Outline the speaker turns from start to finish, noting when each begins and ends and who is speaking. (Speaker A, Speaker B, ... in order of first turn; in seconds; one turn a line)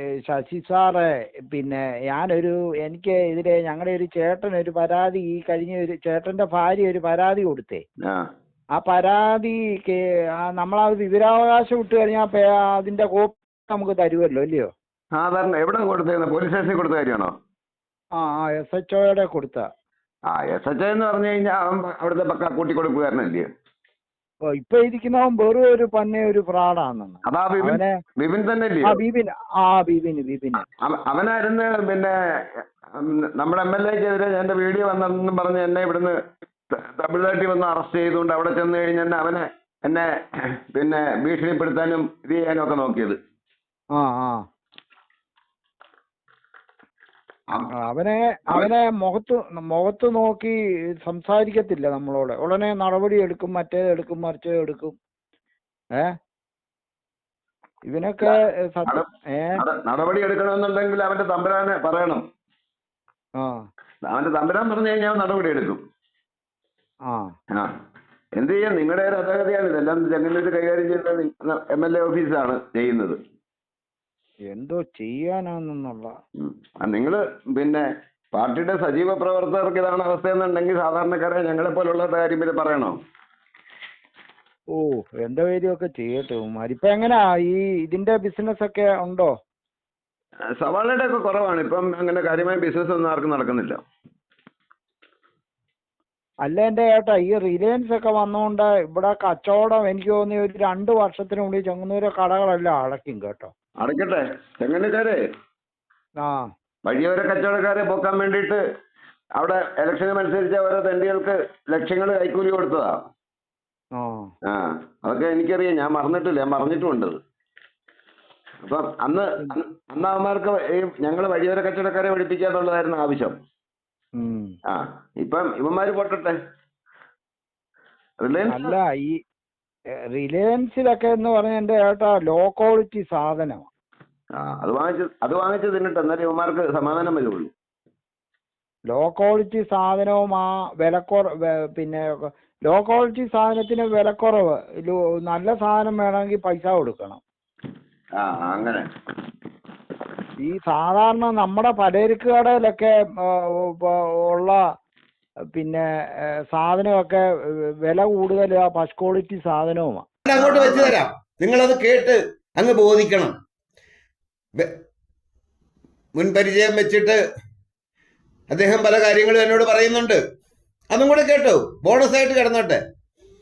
Speaker A: 0.3-7.8
Speaker A: 8.8-14.7
Speaker B: 15.2-17.3
Speaker A: 18.2-19.7
Speaker B: 20.3-23.4
Speaker A: 24.5-27.9
Speaker B: 27.2-29.0
Speaker A: 28.8-30.6
Speaker B: 30.7-36.1
Speaker B: 36.7-40.1
Speaker B: 40.7-43.2
Speaker A: 43.9-44.4
Speaker A: 47.7-55.0
Speaker A: 57.9-59.6
Speaker B: 59.6-62.2
Speaker B: 64.1-65.8
Speaker B: 68.3-73.2
Speaker A: 74.5-76.1
Speaker B: 76.4-83.0
Speaker A: 84.7-89.3
Speaker B: 90.6-93.8
Speaker A: 96.4-103.5
Speaker B: 103.8-105.2
Speaker B: 106.8-108.6
Speaker B: 109.4-113.0
Speaker A: 114.0-114.3
Speaker B: 114.5-117.2
Speaker B: 118.6-123.3
Speaker A: 124.2-124.5
Speaker B: 124.7-126.3
Speaker B: 128.2-128.7
Speaker A: 128.5-129.2
Speaker A: 130.1-133.7
Speaker B: 134.4-137.5
Speaker A: 138.9-142.0
Speaker A: 142.7-147.2
Speaker B: 148.2-148.8
Speaker A: 150.4-152.9
Speaker A: 153.8-154.6
Speaker A: 155.5-155.8
Speaker A: 156.5-157.2
Speaker A: 157.8-160.0
Speaker C: 160.2-163.3
Speaker B: 160.3-161.0
Speaker C: 166.2-167.2
Speaker C: 168.5-170.2
Speaker C: 170.9-172.8